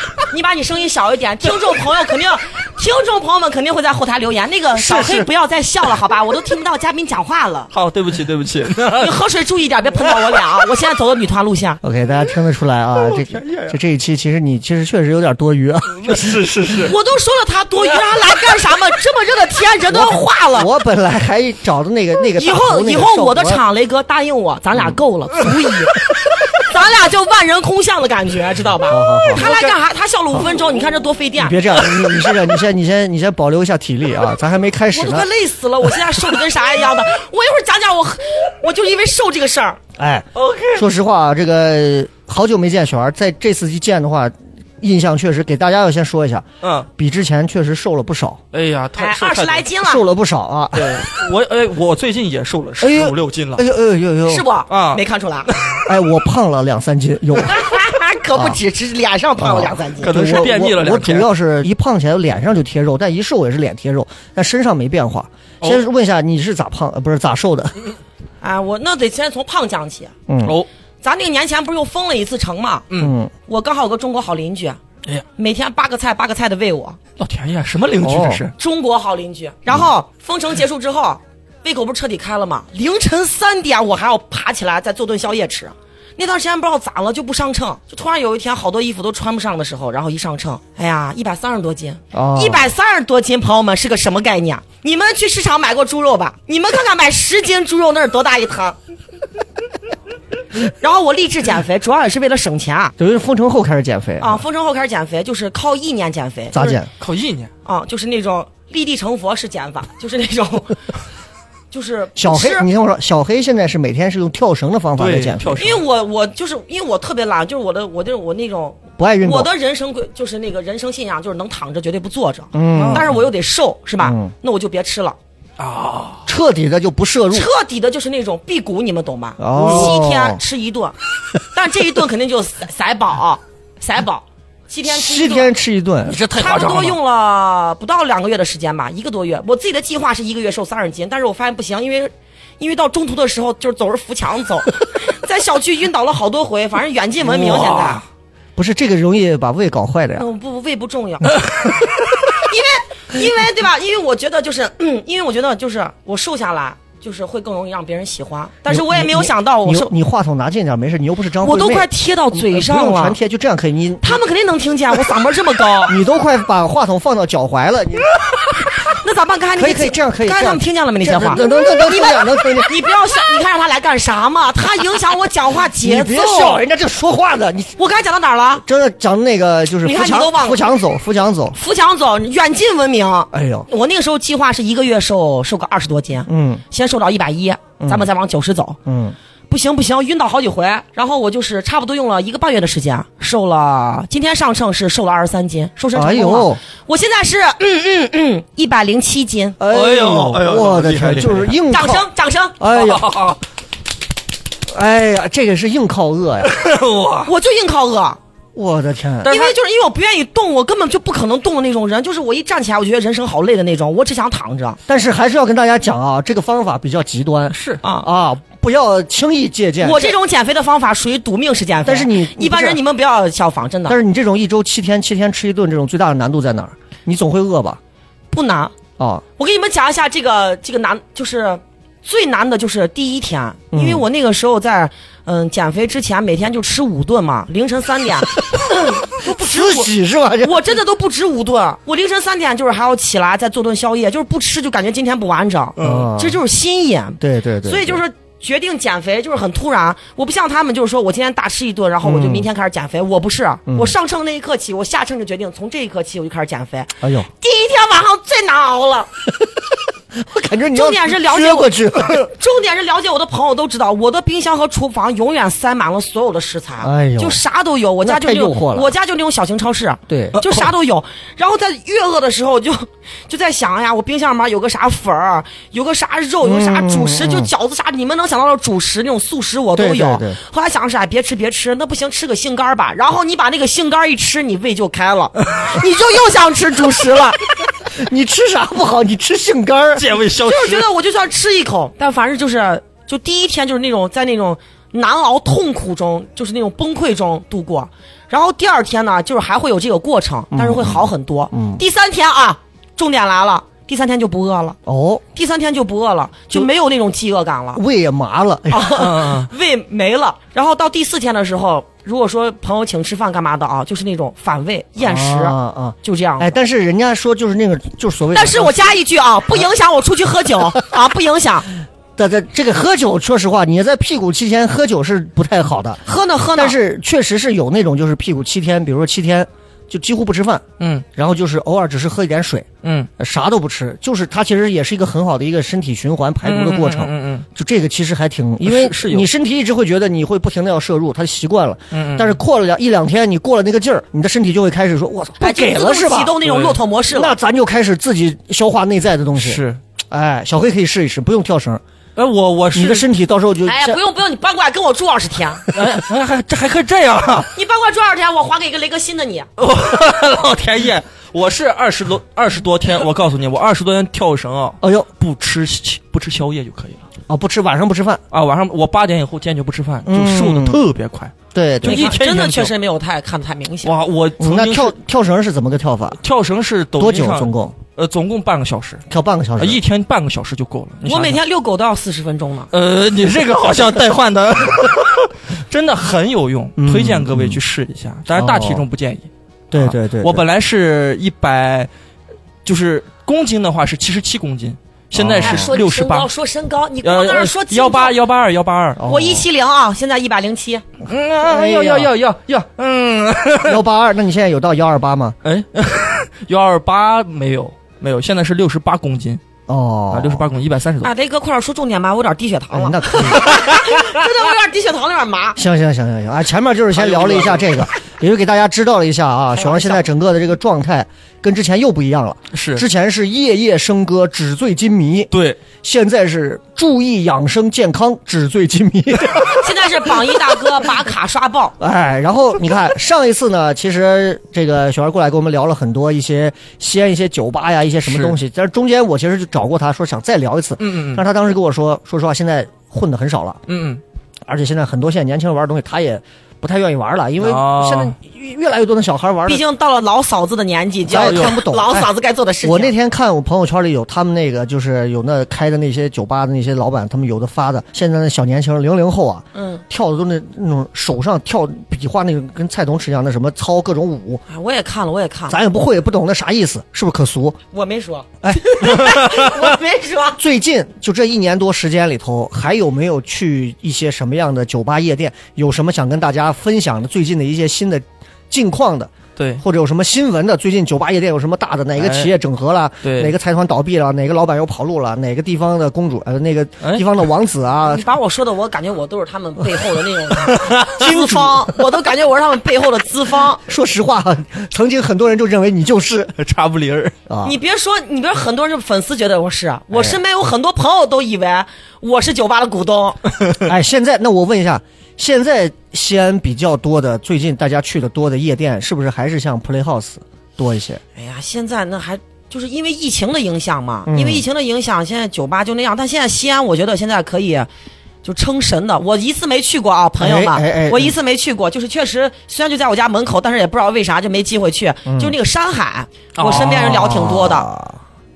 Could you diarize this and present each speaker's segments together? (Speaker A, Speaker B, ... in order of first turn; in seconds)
Speaker A: 0.2-7.7, 8.9-11.8, 16.8-20.7, 22.4-31.8, 34.9-39.8, 49.0-50.0, 54.2-55.5, 57.4-60.1, 68.4-70.1, 71.0-72.9, 73.5-74.8, 75.3-77.0, 78.6-98.8, 100.6-102.9, 104.2-106.8, 107.7-110.8, 111.7-112.7, 115.6-125.2, 127.3-130.9, 131.5-135.5, 136.3-148.0, 150.2-151.4, 152.4-159.9, 161.4-163.2, 164.0-165.9, 168.8-176.6, 177.8-178.6, 179.8-180.6, 181.5-188.8, 189.5-199.6, 201.7-202.6, 207.2-208.2, 209.2-214.8, 217.8-218.1, 219.8-224.0, 228.3-228.7, 229.4-239.9, 240.4-259.1, 260.7-287.4, 290.4-304.8, 305.3-307.8, 308.7-316.5, 318.3-321.7, 326.1-326.8, 345.4-347.3, 353.6-355.6, 357.5-359.5, 371.8-373.9, 381.0-382.7, 395.4-398.1, 399.0-400.8, 411.0-415.6, 419.5-420.1, 429.5-431.7, 449.4-452.9, 459.5-459.8, 464.5-465.6, 467.7-470.4, 487.8-493.6, 497.4-503.2, 511.1-517.7, 518.2-527.7
Speaker B: 4.8-5.3, 7.7-9.1, 13.0-13.8, 16.0-16.9, 40.3-40.8, 46.6-46.9, 48.5-49.7, 50.7-53.6, 54.7-55.8, 60.0-61.3, 77.2-78.5, 106.6-107.5, 115.0-115.8, 122.7-123.1, 125.6-126.2, 129.6-129.9, 136.1-137.0, 147.3-148.0, 199.7-201.6, 202.7-203.4, 206.4-207.3, 209.2-209.5, 217.5-217.8, 245.8-246.1, 270.4-270.6, 289.9-290.9, 308.9-309.5, 330.8-331.0, 332.8-333.1, 336.4-337.4, 338.6-339.3, 341.9-342.4, 346.4-346.8, 349.4-349.8, 352.1-353.1, 355.7-357.5, 359.6-367.0, 368.3-372.7, 373.8-374.9, 376.2-379.0, 379.6-381.4, 382.7-391.9, 392.6-396.3, 397.0-399.0, 401.1-403.8, 405.4-409.4, 410.1-411.1, 416.9-417.9, 422.5-422.8, 425.3-425.6, 438.1-438.3, 440.8-441.2, 443.7-444.0, 447.4-448.1, 451.2-451.6, 479.4-479.6, 482.0-482.3, 483.0-483.3, 486.8-487.1, 490.5-490.9, 496.4-497.1, 526.4-526.9
Speaker C: 11.8-16.4, 19.9-23.6, 28.9-29.5, 31.4-35.3, 40.0-48.4, 49.8-51.1, 52.8-54.5, 55.8-57.6, 59.4-67.8, 70.3-70.5, 72.9-73.3, 78.0-78.4, 92.1-92.7, 103.0-104.4, 106.5-106.9, 112.2-115.6, 119.0-119.5, 122.5-123.2, 124.0-124.3, 126.2-127.5, 129.4-130.4, 134.9-136.2, 147.3-147.9, 148.6-150.2, 158.7-164.2, 165.9-168.1, 169.6-172.7, 175.8-177.8, 178.6-181.6, 183.3-183.7, 186.3-186.6, 187.8-188.0, 188.8-189.2, 195.9-196.6, 199.6-202.1, 202.6-203.1, 204.7-206.5, 208.5-209.3, 214.9-220.1, 221.8-222.8, 223.9-227.8, 229.0-229.2, 233.7-234.0, 239.2-240.6, 245.8-246.4, 247.2-248.0, 252.0-252.5, 253.7-253.9, 257.0-257.3, 260.1-262.3, 266.8-267.4, 268.0-268.9, 270.1-270.4, 276.4-277.5, 279.7-280.4, 287.9-290.1, 300.5-301.8, 304.9-305.2, 307.7-308.9, 315.0-318.9, 322.2-326.0, 326.5-330.6, 331.1-332.7, 333.2-346.4, 347.1-351.8, 352.7-354.0, 364.8-365.1, 367.3-368.2, 370.0-370.8, 371.5-372.1, 374.4-376.2, 377.0-377.8, 379.1-379.8, 386.8-387.6, 388.3-388.8, 389.7-390.4, 395.1-395.7, 399.0-399.4, 401.4-402.1, 403.6-405.4, 409.7-410.5, 412.7-413.6, 415.6-425.3, 425.8-429.7, 431.8-443.6, 444.5-449.6, 451.1-452.1, 452.6-464.4, 465.5-467.6, 468.4-469.5, 470.4-488.1, 490.9-491.6, 493.6-496.3, 497.3-497.6, 503.6-511.0, 514.0-514.4, 520.2-521.1, 525.0-525.3, 526.4-528.0